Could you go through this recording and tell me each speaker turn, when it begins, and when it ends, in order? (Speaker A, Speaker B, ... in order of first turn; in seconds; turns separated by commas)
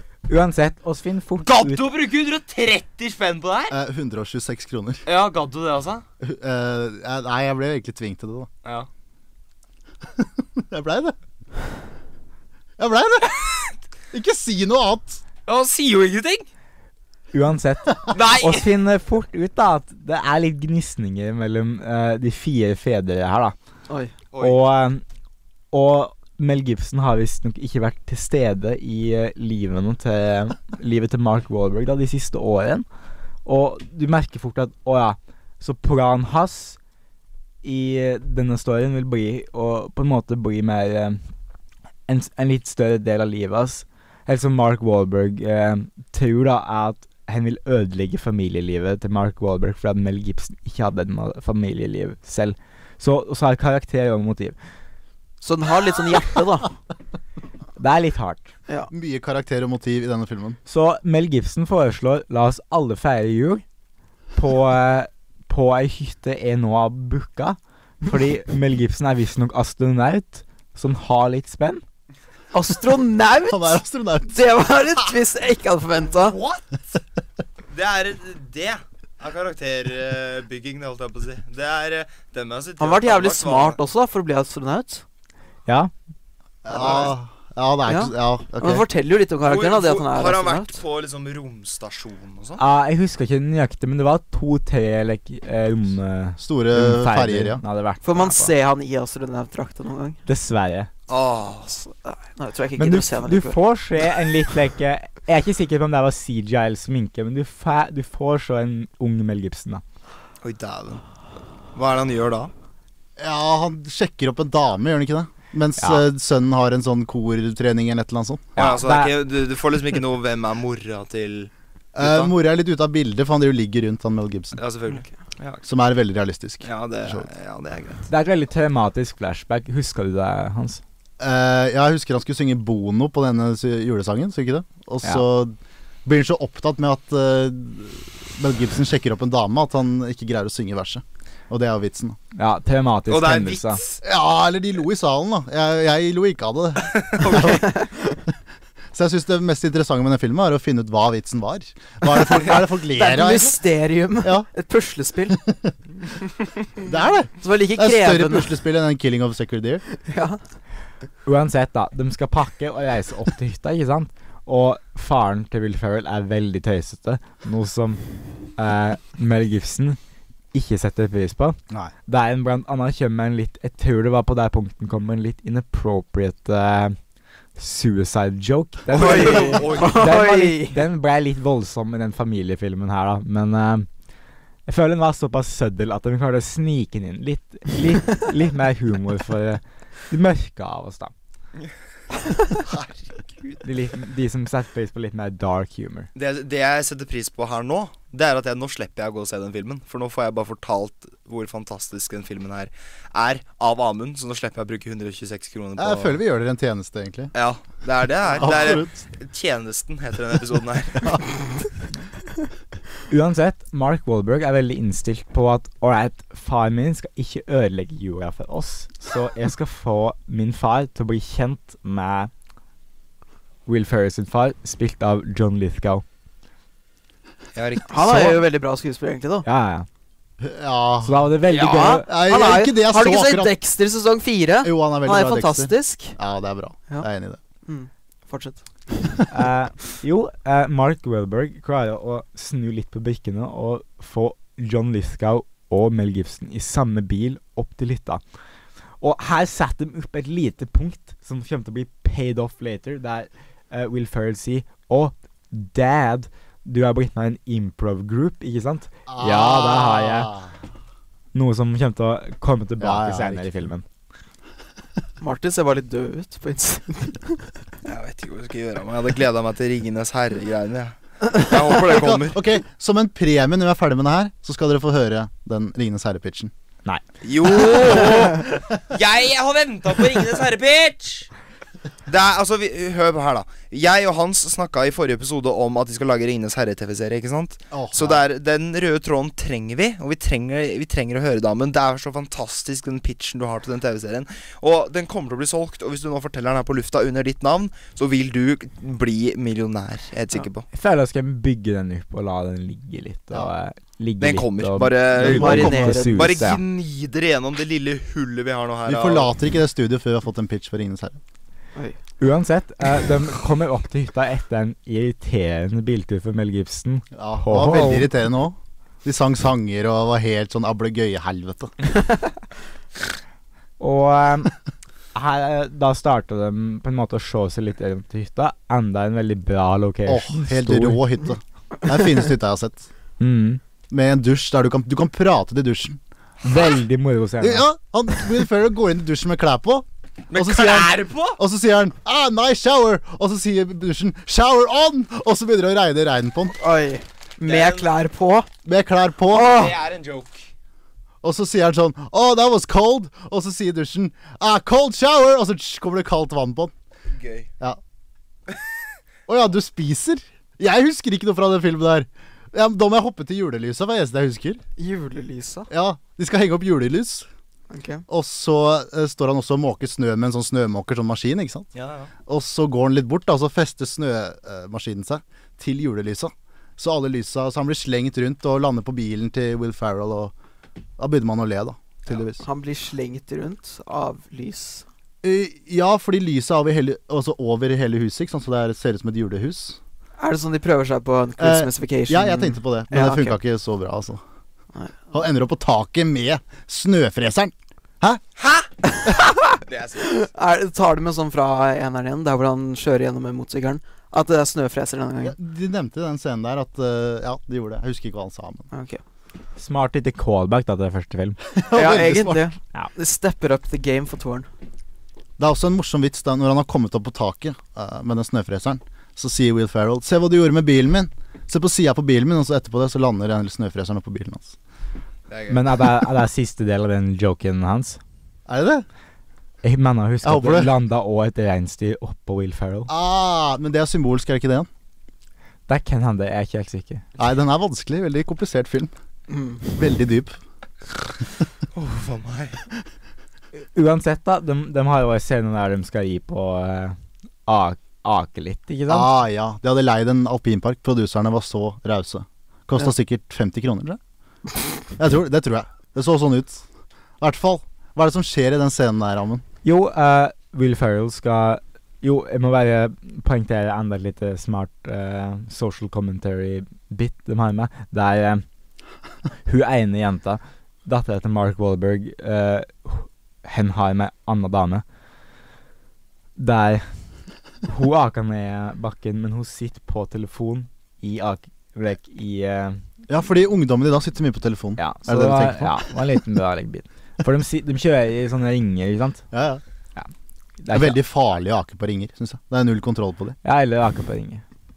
Speaker A: 0.3-1.8, Speaker B: 1.4-3.7, Speaker C: 3.7-5.0, Speaker B: 5.0-6.0, Speaker C: 6.2-8.5, Speaker C: 10.2-11.1, Speaker C: 12.8-15.2, Speaker B: 15.5-16.5, Speaker A: 17.3-23.5, Speaker B: 18.1-18.7, Speaker B: 24.3-24.6, Speaker A: 24.4-25.0, Speaker A: 25.7-32.8, Speaker A: 33.4-36.8, Speaker A: 37.6-41.2, Speaker A: 42.1-54.5, Speaker D: 55.4-56.7, Speaker A: 57.8-58.5, Speaker C: 58.9-60.6, Speaker A: 60.7-63.6, Speaker A: 64.3-71.8, Speaker D: 72.5-76.4, Speaker C: 73.5-74.5, Speaker B: 76.2-76.8, Speaker B: 77.7-83.8, Speaker D: 82.8-85.0, Speaker A: 85.7-85.9, Speaker C: 86.6-88.8, Speaker B: 86.7-87.1, Speaker D: 87.8-90.8, Speaker B: 89.4-92.6, Speaker A: 92.6-98.5, Speaker C: 96.4-97.6, Speaker D: 98.0-100.2, Speaker A: 100.2-100.9, Speaker B: 101.1-102.1, Speaker D: 102.3-103.6, Speaker A: 102.8-109.8, Speaker B: 110.4-111.0, Speaker B: 111.7-112.5, Speaker C: 113.2-118.5, Speaker A: 115.8-116.0, Speaker A: 118.5-119.1, Speaker B: 118.5-122.3, Speaker C: 121.9-124.6, Speaker B: 124.5-125.6, Speaker C: 125.6-127.3, Speaker B: 126.6-128.1, Speaker A: 128.1-130.8, Speaker C: 131.2-135.5, Speaker C: 136.0-142.2, Speaker A: 142.3-143.8, Speaker B: 143.1-144.0, Speaker C: 144.0-147.8, Speaker B: 146.8-147.7, Speaker C: 148.9-153.6, Speaker D: 152.5-155.4, Speaker C: 155.5-155.7, Speaker C: 156.8-159.8, Speaker D: 157.4-158.5, Speaker D: 160.0-160.4, Speaker A: 161.2-168.0, Speaker A: 168.6-170.0, Speaker A: 170.5-176.9, Speaker A: 177.6-183.9, Speaker B: 178.9-180.1, Speaker D: 178.9-180.8, Speaker A: 184.7-191.1, Speaker A: 193.6-196.1, Speaker B: 196.1-206.2, Speaker C: 205.8-207.3, Speaker B: 207.3-211.2, Speaker C: 208.4-209.0, Speaker A: 213.1-222.3, Speaker A: 223.7-226.0, Speaker B: 227.5-228.4, Speaker D: 227.9-229.4, Speaker A: 229.4-229.9, Speaker C: 230.4-231.3, Speaker A: 231.0-232.1, Speaker B: 231.5-231.8, Speaker D: 231.5-236.2, Speaker C: 232.0-233.5, Speaker C: 234.6-237.4, Speaker D: 237.7-239.2, Speaker A: 239.3-248.2, Speaker A: 249.0-260.3, Speaker C: 259.1-260.5, Speaker A: 261.3-263.8, Speaker C: 262.8-263.4, Speaker D: 265.2-267.4, Speaker B: 267.8-272.4, Speaker C: 271.8-276.5, Speaker B: 277.2-281.3, Speaker B: 282.1-300.6, Speaker C: 287.7-288.2, Speaker A: 300.7-306.6, Speaker B: 304.2-309.3, Speaker D: 305.2-306.3, Speaker C: 308.9-311.2, Speaker A: 312.2-318.1, Speaker C: 317.1-321.7, Speaker A: 323.8-324.5, Speaker A: 325.1-331.0, Speaker C: 330.1-332.9, Speaker A: 333.2-333.6, Speaker C: 333.9-336.0, Speaker A: 336.4-337.6, Speaker C: 337.4-346.6, Speaker B: 340.3-341.4, Speaker D: 346.6-348.5, Speaker B: 347.4-347.9, Speaker C: 348.6-349.7, Speaker D: 349.3-349.7, Speaker B: 349.3-350.5, Speaker C: 351.2-356.7, Speaker B: 357.1-357.5, Speaker C: 359.3-364.6, Speaker D: 364.8-365.7, Speaker C: 365.7-367.3, Speaker D: 367.7-368.0, Speaker C: 368.1-371.7, Speaker B: 371.7-372.1, Speaker C: 372.2-380.3, Speaker C: 381.0-382.4, Speaker D: 382.1-384.8, Speaker C: 385.2-389.8, Speaker D: 390.2-393.4, Speaker C: 391.4-394.2, Speaker C: 395.1-398.2, Speaker B: 398.4-398.7, Speaker D: 398.8-399.4, Speaker B: 399.6-400.2, Speaker D: 400.0-405.3, Speaker C: 405.2-408.7, Speaker D: 408.7-409.0, Speaker A: 409.6-411.4, Speaker C: 411.5-412.5, Speaker D: 411.7-414.5, Speaker C: 415.4-424.6, Speaker B: 425.3-425.6, Speaker A: 425.5-428.0, Speaker C: 428.5-428.8, Speaker A: 429.6-432.9, Speaker C: 430.2-430.7, Speaker C: 432.9-434.7, Speaker A: 435.7-437.1, Speaker C: 437.2-438.9, Speaker D: 439.3-439.6, Speaker C: 439.6-440.4, Speaker B: 441.7-442.6, Speaker A: 443.7-449.1, Speaker C: 448.9-454.0, Speaker C: 454.9-456.6, Speaker C: 457.2-459.4, Speaker A: 459.6-468.4, Speaker A: 469.4-474.8, Speaker A: 476.4-476.9, Speaker A: 477.6-482.8, Speaker C: 483.1-485.9, Speaker A: 484.8-489.2, Speaker C: 489.3-489.6, Speaker A: 490.6-491.0, Speaker C: 490.7-493.4, Speaker A: 493.4-494.4